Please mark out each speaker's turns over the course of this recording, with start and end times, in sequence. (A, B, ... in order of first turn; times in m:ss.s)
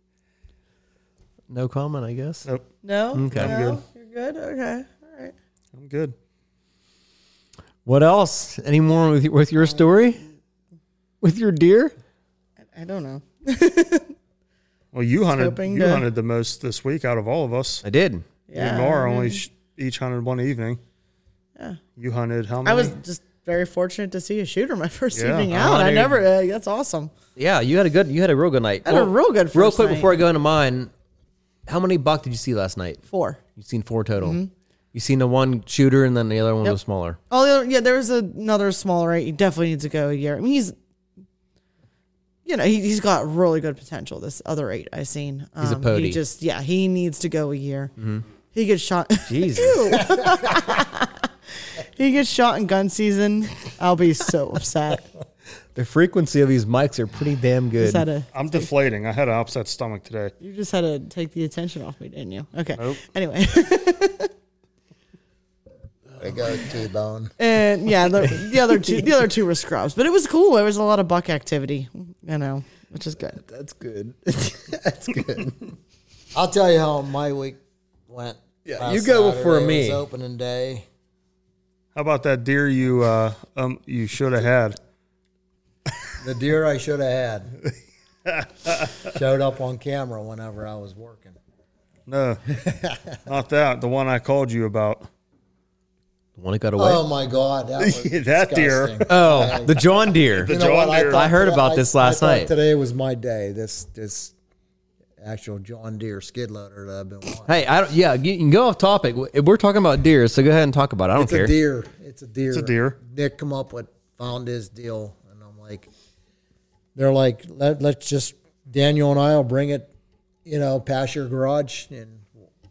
0:01.5-0:02.5 A
0:02.8-0:05.3 B
0:03.2-0:03.6 A
0:03.3-0:03.8 C
0:05.7-0:06.2 C
0:07.8-0:10.2 A
0:11.2-0:11.9 A
0:12.7-0:14.1 B
0:14.9-0:17.8 C
0:15.2-0:16.1 B
0:17.8-0:18.3 A
0:18.5-0:19.4 B
0:18.5-0:20.8 C
0:22.0-0:23.0 C
0:22.6-0:27.1 B
0:25.1-0:25.5 C
0:25.5-0:26.2 A
0:27.4-0:30.9 A
0:28.8-0:30.1 B
0:31.7-0:33.0 A
0:33.1-0:33.4 B
0:33.6-0:34.4 A
0:34.2-0:34.5 B
0:34.9-0:37.2 A
0:37.3-0:40.8 B
0:42.4-0:47.9 B
0:45.6-0:46.2 A
0:48.0-0:48.2 A
0:48.5-0:55.1 B
0:49.3-0:50.0 A
0:55.8-0:58.0 A
0:57.8-0:58.7 B
0:58.3-1:00.3 C
1:00.4-1:04.3 B
1:06.2-1:07.3 D
1:07.4-1:13.4 B
1:13.4-1:14.8 A
1:14.7-1:15.6 D
1:16.3-1:20.9 D
1:18.6-1:20.0 A
1:22.0-1:24.8 C
1:26.2-1:27.5 D
1:28.3-1:29.1 C
1:29.0-1:31.4 D
1:32.1-1:32.4 C
1:32.5-1:33.2 D
1:33.3-1:35.1 C
1:36.4-1:37.0 A
1:36.8-1:44.4 D
1:37.8-1:39.1 C
1:39.1-1:42.5 A
1:40.3-1:41.3 C
1:45.2-1:47.5 D
1:47.5-1:51.5 A
1:51.2-1:55.9 D
1:52.5-1:53.0 C
1:57.0-1:59.9 D
2:00.4-2:02.3 D